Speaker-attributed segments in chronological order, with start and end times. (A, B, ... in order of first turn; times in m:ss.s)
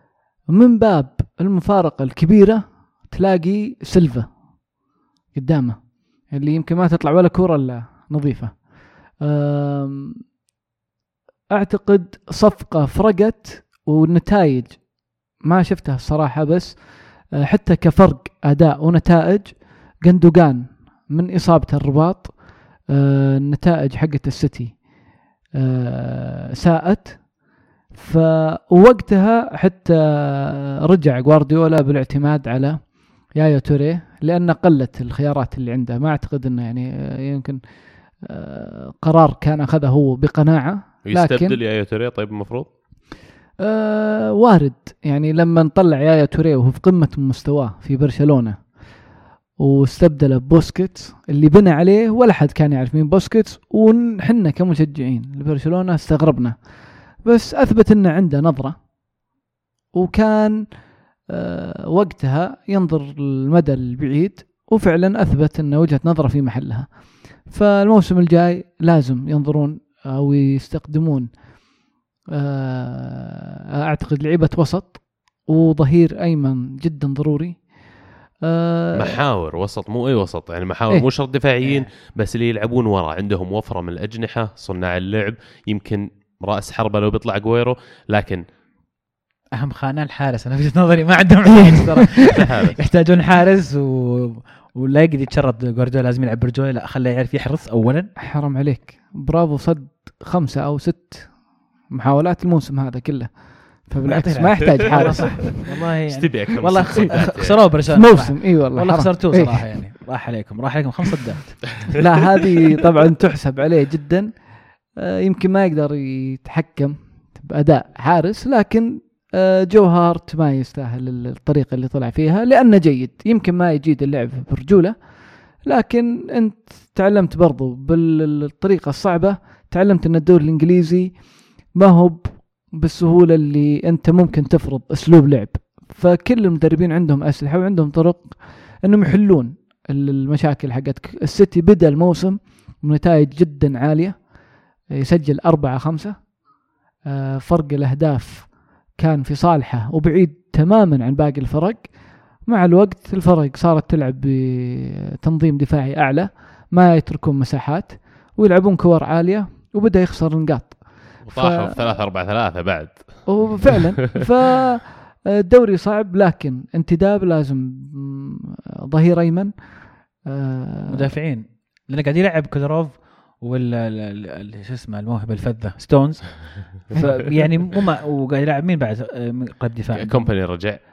0:00.5-0:04.3 A
0:05.3-0:10.2 A
0:11.5-0:14.9 A
0:15.4-0:24.8 A
0:25.6-0:27.3 A
0:27.9-0:37.6 A
0:38.2-0:41.6 A
0:41.1-0:42.7 B
0:43.6-0:48.7 A
0:49.6-0:56.6 A
0:57.1-0:58.8 A
0:59.9-1:00.6 A
1:01.3-1:11.3 A
1:12.3-1:17.7 A
1:18.4-1:19.2 A
1:19.0-1:28.4 B
1:21.6-1:21.9 C
1:29.5-1:38.1 C
1:32.4-1:32.7 B
1:38.2-1:41.4 A
1:41.9-1:45.5 A
1:44.1-1:51.8 C
1:45.0-1:47.7 B
1:47.9-1:49.6 A
1:52.0-1:54.3 A
1:55.0-2:05.0 A
2:05.6-2:11.2 A
2:11.7-2:24.3 A
2:24.9-2:26.3 A
2:27.1-2:41.8 A
2:41.2-2:43.4 B
2:43.3-2:51.1 A
2:50.9-3:00.4 C
3:00.0-3:00.8 B